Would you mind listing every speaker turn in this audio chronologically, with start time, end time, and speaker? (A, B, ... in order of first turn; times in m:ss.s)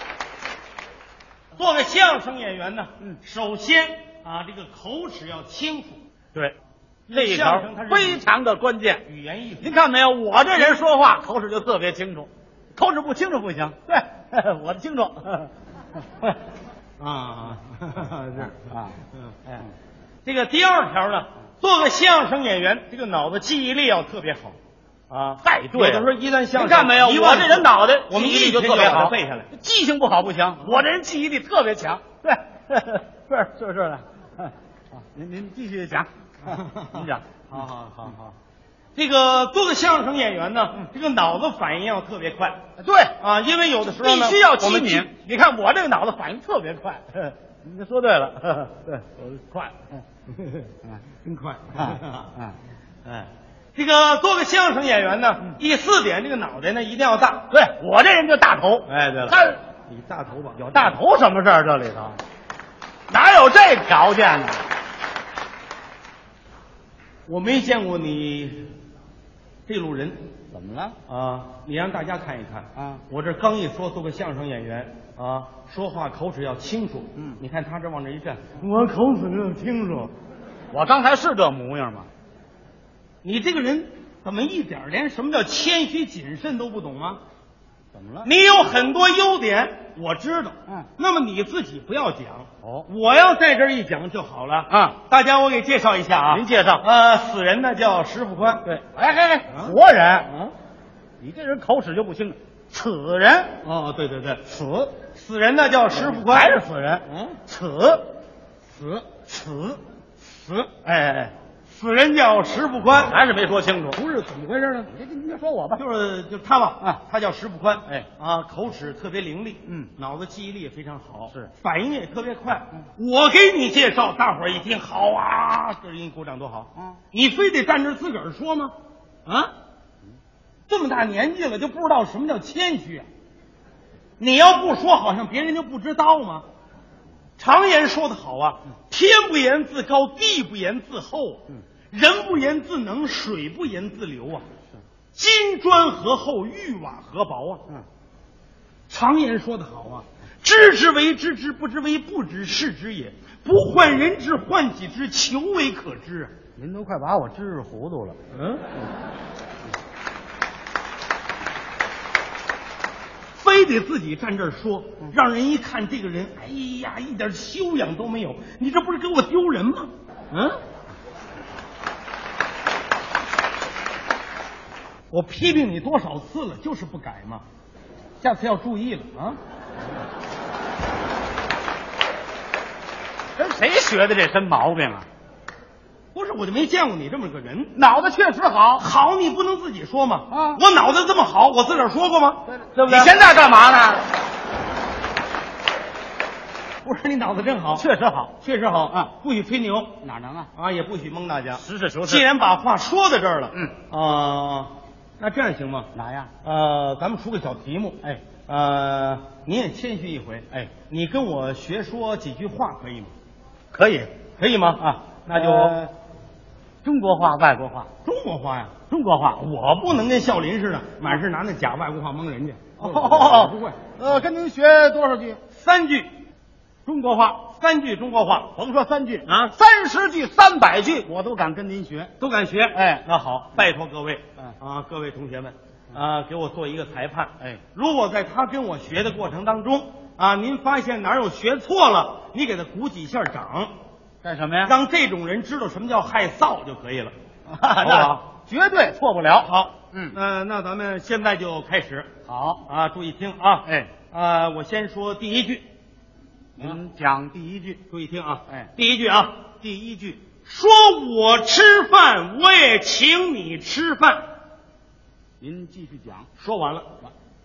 0:01.5-0:06.0 A
0:07.1-0:08.2 A
0:07.1-0:09.0 B
0:09.0-0:09.8 A
0:09.6-0:15.5 B
0:17.0-0:19.6 A
0:18.4-0:19.0 B
0:20.2-0:24.6 A
0:25.1-0:29.5 A
0:25.4-0:38.3 B
0:30.6-0:30.8 A
0:36.5-0:38.2 A
0:38.9-0:42.6 A
0:42.8-0:43.1 B
0:43.2-0:45.1 A
0:43.9-0:50.0 B
0:50.3-0:50.7 A
0:51.2-0:52.3 A
0:51.8-0:52.6 B
0:53.0-0:57.5 A
0:57.5-0:59.6 B
0:58.8-1:00.9 A
1:00.6-1:02.2 B
1:03.1-1:04.6 B
1:07.3-1:08.7 A
1:09.7-1:10.2 A
1:10.5-1:11.0 B
1:11.1-1:20.1 A
1:12.8-1:13.0 B
1:20.7-1:22.1 B
1:23.2-1:27.2 A
1:27.9-1:28.3 B
1:28.2-1:38.6 A
1:34.7-1:35.0 B
1:36.3-1:36.8 B
1:38.6-1:40.3 B
1:39.5-1:40.5 A
1:41.2-1:43.6 B
1:43.6-1:44.5 A
1:44.5-1:44.9 B
1:45.1-1:47.4 A
1:45.9-1:48.0 B
1:48.8-1:49.0 A
1:49.3-1:49.8 B
1:50.6-1:51.3 B
1:51.7-1:53.2 A
1:53.0-1:54.0 B
1:53.9-1:54.9 A
1:54.9-1:55.8 B
1:55.7-2:08.7 A
2:09.2-2:09.5 A
2:10.7-2:13.1 A
2:14.2-2:16.4 A
2:17.4-2:24.4 A
2:25.1-2:27.6 A
2:28.9-2:36.3 A
2:36.6-2:38.2 B
2:38.3-2:38.6 A
2:43.4-2:50.6 A
2:55.1-2:57.4 A
2:58.2-2:59.4 A
3:03.4-3:05.1 B
3:06.1-3:07.7 A
3:07.7-3:08.9 B
3:08.8-3:13.2 A
3:10.3-3:10.6 B
3:12.8-3:14.1 B
3:16.8-3:17.9 A
3:17.7-3:18.3 B
3:18.4-3:20.0 A
3:20.0-3:20.5 B
3:20.5-3:25.9 A
3:21.5-3:22.2 B
3:25.9-3:26.3 B
3:26.4-3:33.1 A
3:33.7-3:34.1 B
3:34.4-3:35.7 A
3:34.8-3:35.9 B
3:36.8-3:37.9 B
3:38.0-3:38.7 A
3:38.9-3:39.4 B
3:39.4-3:44.2 A
3:42.8-3:45.4 B
3:45.5-3:46.1 A
3:46.8-3:47.4 B
3:47.5-3:48.5 A
3:48.5-3:52.1 B
3:49.2-3:49.5 A
3:52.2-4:03.7 A
3:52.7-3:53.6 B
4:04.2-4:04.7 B
4:04.6-4:07.1 A
4:07.5-4:10.2 B
4:07.8-4:08.2 A
4:09.4-4:12.1 A
4:12.3-4:12.6 B
4:12.6-4:15.6 A
4:13.6-4:13.9 B
4:16.6-4:17.8 B
4:17.9-4:19.4 A
4:19.6-4:20.2 B
4:20.4-4:24.2 A
4:25.4-4:26.3 B
4:26.4-4:26.9 A